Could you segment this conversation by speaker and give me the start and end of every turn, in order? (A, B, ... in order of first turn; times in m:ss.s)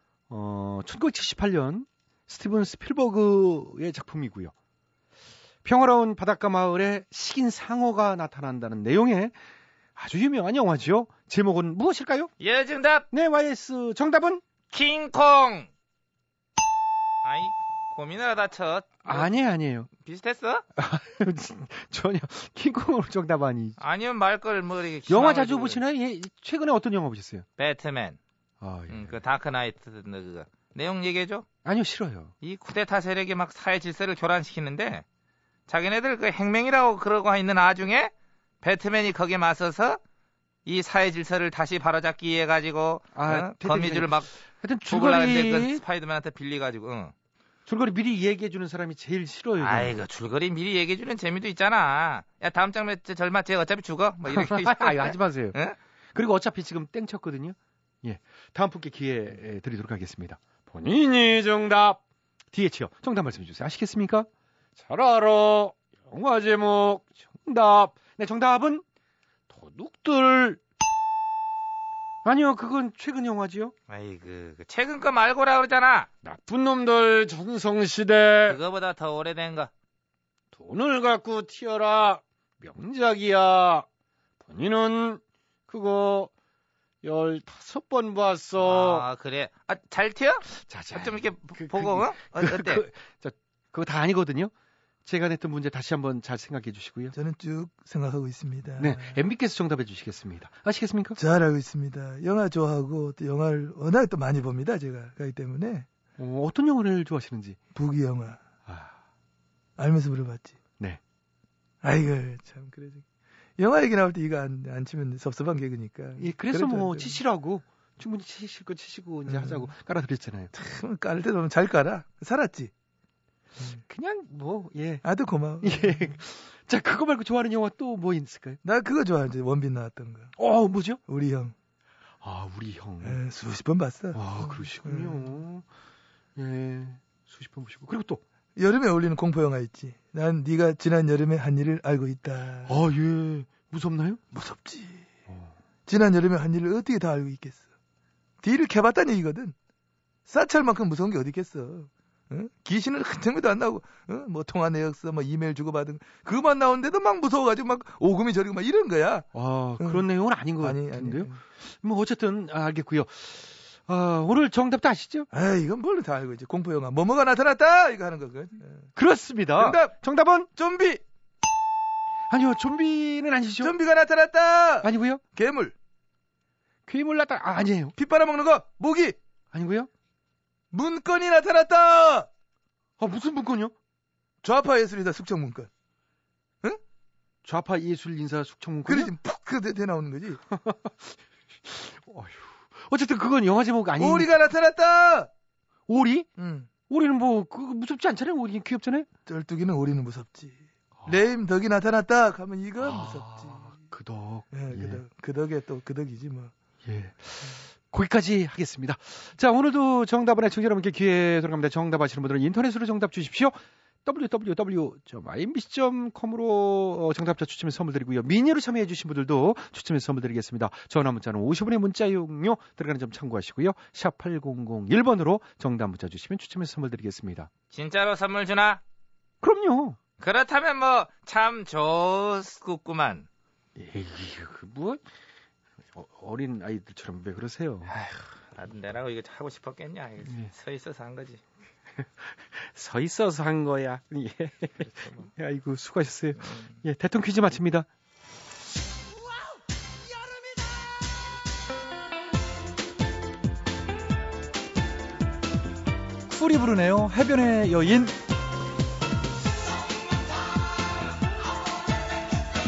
0:00.3-0:04.5 A
0:05.6-0:09.4 A
0:10.0-0:12.3 A
0:12.4-0:13.0 B
0:13.1-0:14.4 A
0:14.7-0:15.7 B
0:17.2-0:19.3 B
0:19.0-0:19.9 A
0:20.0-0:20.6 B
0:20.8-0:23.8 A
0:23.8-0:25.8 B
0:25.1-0:27.4 A
0:27.6-0:28.2 B
0:28.6-0:29.2 A
0:28.9-0:31.4 B
0:31.6-0:32.3 A
0:32.4-0:35.0 B
0:35.7-0:40.0 B
0:40.6-0:44.3 B
0:43.1-0:45.8 A
0:44.8-0:47.1 B
0:47.7-0:50.0 A
0:49.6-0:55.8 B
0:54.2-0:55.6 A
0:56.1-1:02.0 A
1:02.5-1:08.8 A
1:09.5-1:10.6 A
1:12.2-1:13.7 A
1:13.9-1:16.1 B
1:16.2-1:18.6 A
1:18.4-1:19.7 B
1:20.5-1:23.9 A
1:24.4-1:26.3 A
1:27.0-1:29.1 A
1:28.6-1:32.8 B
1:30.5-1:34.5 A
1:35.0-1:37.1 A
1:37.1-1:39.2 C
1:38.8-1:41.2 A
1:41.2-1:45.8 C
1:46.2-1:47.6 A
1:47.7-1:48.4 C
1:48.6-1:48.9 A
1:49.8-1:50.6 C
1:51.8-1:53.0 C
1:53.6-1:57.2 C
1:56.2-2:00.5 A
1:59.3-1:59.7 C
2:00.5-2:02.7 C
2:03.9-2:05.0 A
2:05.0-2:06.1 C
2:05.6-2:08.6 A
2:08.6-2:10.3 C
2:10.4-2:11.0 A
2:11.1-2:11.5 C
2:12.2-2:13.2 A
2:13.0-2:15.3 C
2:14.1-2:15.6 A
2:16.4-2:18.2 A
2:18.6-2:22.8 C
2:22.7-2:24.2 A
2:24.3-2:25.1 C
2:25.9-2:27.6 C
2:28.4-2:29.5 C
2:30.3-2:39.3 C
2:39.3-2:45.3 A
2:40.6-2:41.4 C
2:45.3-2:48.9 C
2:49.0-2:50.5 A
2:49.6-2:49.9 C
2:50.5-2:51.0 C
2:52.3-2:53.7 A
2:53.6-2:55.7 C
2:54.8-2:55.2 A
2:56.9-2:57.9 A
2:58.0-2:59.2 C
2:59.5-2:59.9 A
3:00.7-3:02.3 C
3:03.0-3:03.7 A
3:04.4-3:05.7 C
3:07.4-3:09.1 A
3:08.9-3:10.4 C
3:10.5-3:10.9 A
3:11.6-3:14.3 A
3:14.0-3:15.3 C
3:15.9-3:16.3 A
3:16.4-3:16.7 C
3:16.9-3:19.1 A
3:19.2-3:23.8 C
3:22.8-3:25.0 A
3:24.5-3:26.5 C
3:26.8-3:47.5 A
3:47.7-3:48.8 B
3:49.4-3:50.0 A
3:50.2-3:53.3 B
3:53.8-3:55.0 A
3:55.9-3:57.9 A
3:58.5-4:01.4 B
4:00.2-4:00.5 A
4:02.6-4:07.9 A
4:04.8-4:05.2 B
4:16.3-4:18.2 A